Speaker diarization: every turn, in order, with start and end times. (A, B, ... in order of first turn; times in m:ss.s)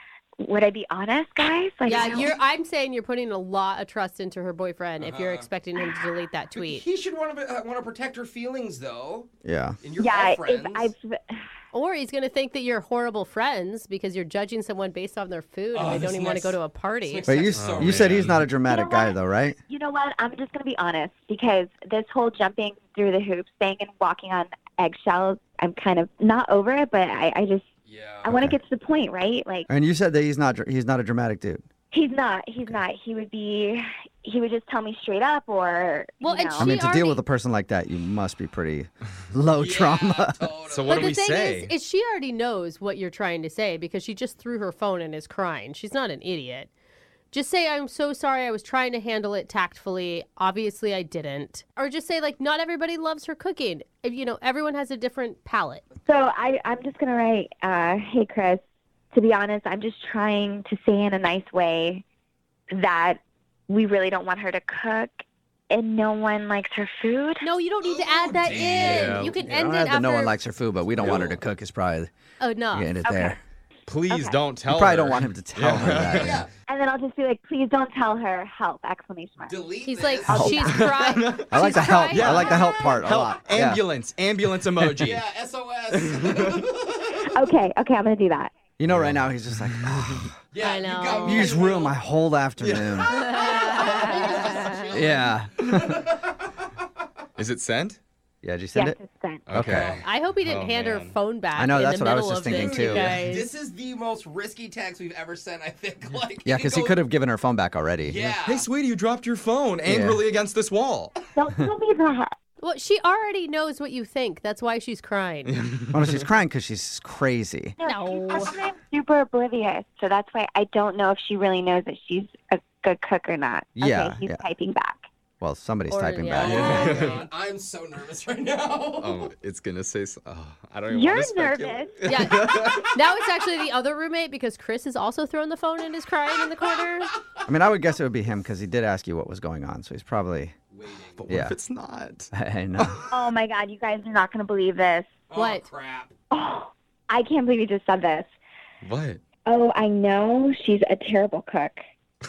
0:00.4-0:02.3 A
0:01.8-0:06.8 B
0:01.9-0:02.4 C
0:05.0-0:05.5 C
0:06.5-0:09.3 C
0:09.4-0:09.8 D
0:09.8-0:10.9 C
0:10.0-0:11.5 A
0:11.7-0:17.3 B
0:15.7-0:18.5 C
0:17.2-0:19.6 D
0:17.5-0:18.5 E
0:18.6-0:19.2 A
0:19.7-0:27.7 A
0:27.9-0:28.3 C
0:28.2-0:28.6 D
0:28.2-0:29.7 A
0:29.7-0:31.6 D
0:31.9-0:36.7 A
0:36.2-0:37.2 B
0:36.6-0:40.4 D
0:39.6-0:41.2 C
0:40.7-0:41.7 E
0:40.9-0:46.7 B
0:47.3-0:55.8 B
0:56.1-0:58.6 A
0:59.1-1:02.0 A
1:02.7-1:07.5 A
1:07.4-1:10.4 B
1:07.8-1:09.4 C
1:08.8-1:09.4 E
1:09.4-1:12.1 D
1:11.0-1:11.4 E
1:12.4-1:12.9 B
1:12.7-1:13.4 D
1:13.0-1:13.4 A
1:13.9-1:16.4 E
1:14.1-1:14.4 A
1:14.7-1:16.4 D
1:16.1-1:16.5 C
1:16.7-1:21.2 A
1:19.5-1:20.5 C
1:19.8-1:23.0 B
1:20.2-1:20.7 D
1:20.7-1:21.6 E
1:21.5-1:23.8 D
1:22.1-1:25.2 E
1:24.8-1:25.1 D
1:25.0-1:27.3 C
1:25.9-1:26.7 E
1:27.3-1:28.5 A
1:28.8-1:30.3 D
1:28.9-1:30.3 E
1:30.5-1:32.0 C
1:30.6-1:31.6 B
1:31.2-1:33.2 D
1:32.6-1:33.1 E
1:33.1-1:35.0 B
1:33.2-1:36.5 C
1:34.9-1:36.0 D
1:37.4-1:38.0 E
1:38.4-1:39.0 D
1:38.8-1:39.5 A
1:39.5-1:41.2 E
1:39.5-1:40.0 D
1:39.6-1:40.1 C
1:40.0-1:43.5 B
1:41.6-1:43.1 D
1:42.5-1:47.0 C
1:46.4-1:48.3 D
1:48.0-1:48.7 C
1:48.4-1:51.1 E
1:49.8-1:50.2 D
1:51.4-1:52.3 A
1:52.6-1:55.5 B
1:55.5-1:56.2 E
1:55.9-1:57.8 D
1:57.8-2:05.0 A
1:57.8-1:58.5 B
2:03.8-2:04.4 D
2:05.4-2:06.8 D
2:05.9-2:07.2 B
2:06.4-2:09.3 C
2:06.4-2:07.2 E
2:09.0-2:12.9 E
2:10.9-2:12.0 A
2:12.0-2:17.1 B
2:17.5-2:20.5 D
2:20.7-2:21.3 C
2:21.2-2:23.1 E
2:21.3-2:21.6 D
2:22.3-2:23.0 D
2:23.1-2:25.1 A
2:25.3-2:26.1 C
2:25.4-2:25.7 B
2:26.3-2:28.3 A
2:28.8-2:29.2 E
2:29.5-2:31.8 A